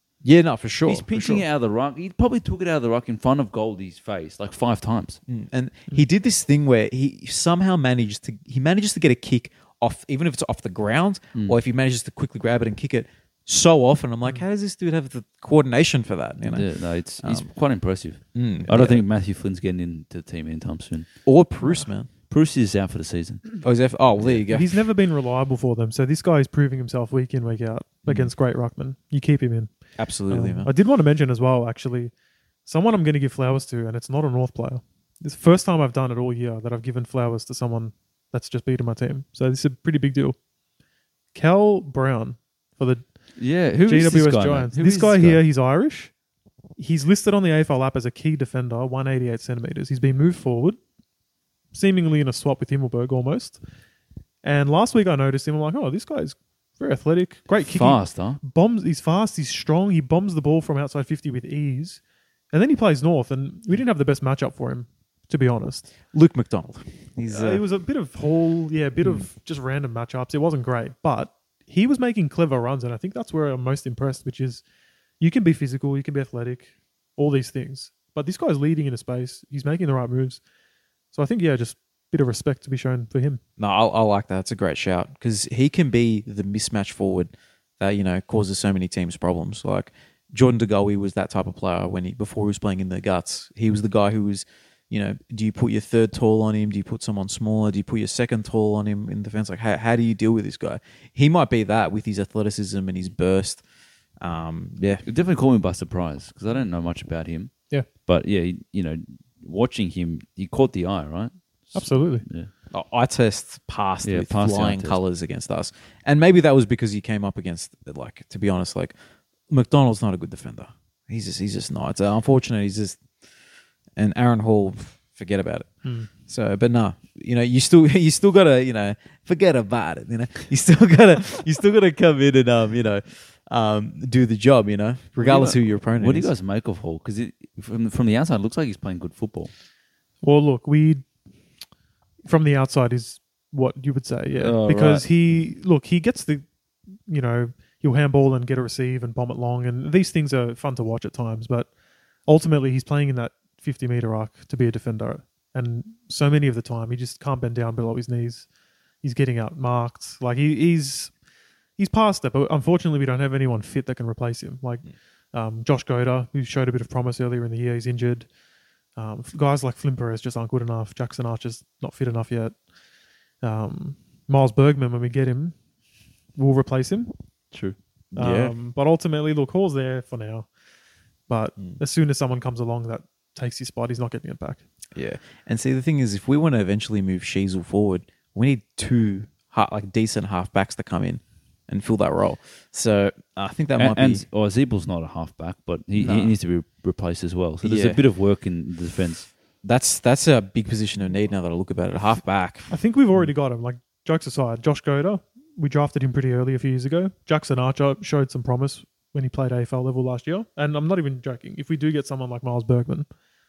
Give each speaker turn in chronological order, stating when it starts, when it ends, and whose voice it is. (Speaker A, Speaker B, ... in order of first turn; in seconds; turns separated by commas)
Speaker A: 0.2-1.4, Speaker B: 0.8-5.2, Speaker A: 5.3-16.7, Speaker B: 16.4-21.1, Speaker A: 17.2-17.5, Speaker A: 18.3-19.0, Speaker A: 21.2-22.1, Speaker B: 22.3-23.6, Speaker A: 23.6-24.8, Speaker B: 24.2-24.4, Speaker C: 24.5-29.7, Speaker A: 28.0-28.3, Speaker A: 30.0-30.7, Speaker C: 30.3-32.1, Speaker C: 32.6-40.4, Speaker C: 41.3-43.0, Speaker B: 43.4-45.4, Speaker C: 43.8-46.1, Speaker C: 46.8-50.8, Speaker C: 51.7-53.6, Speaker C: 54.4-62.0, Speaker B: 57.6-58.4, Speaker C: 62.5-65.9, Speaker A: 66.1-67.6, Speaker C: 67.3-74.6, Speaker C: 75.2-80.4, Speaker C: 81.1-83.4, Speaker A: 83.6-103.6, Speaker A: 104.2-105.0, Speaker B: 105.0-112.5, Speaker C: 111.7-112.2, Speaker A: 112.7-118.9, Speaker B: 114.0-115.0, Speaker A: 119.5-123.0, Speaker A: 124.0-136.3, Speaker C: 125.8-126.1, Speaker B: 135.2-139.5, Speaker C: 140.2-141.0, Speaker C: 142.2-146.4, Speaker B: 144.3-145.0, Speaker C: 147.1-151.7, Speaker C: 152.3-158.5, Speaker C: 159.0-161.1, Speaker C: 161.8-168.3, Speaker C: 168.9-172.6, Speaker C: 173.4-175.5, Speaker C: 176.3-177.1, Speaker C: 178.1-180.5, Speaker A: 178.2-178.5, Speaker C: 181.3-184.6, Speaker A: 184.9-194.2, Speaker B: 193.8-199.3, Speaker A: 195.9-196.3, Speaker A: 197.6-198.0, Speaker A: 199.6-203.3, Speaker C: 202.7-213.1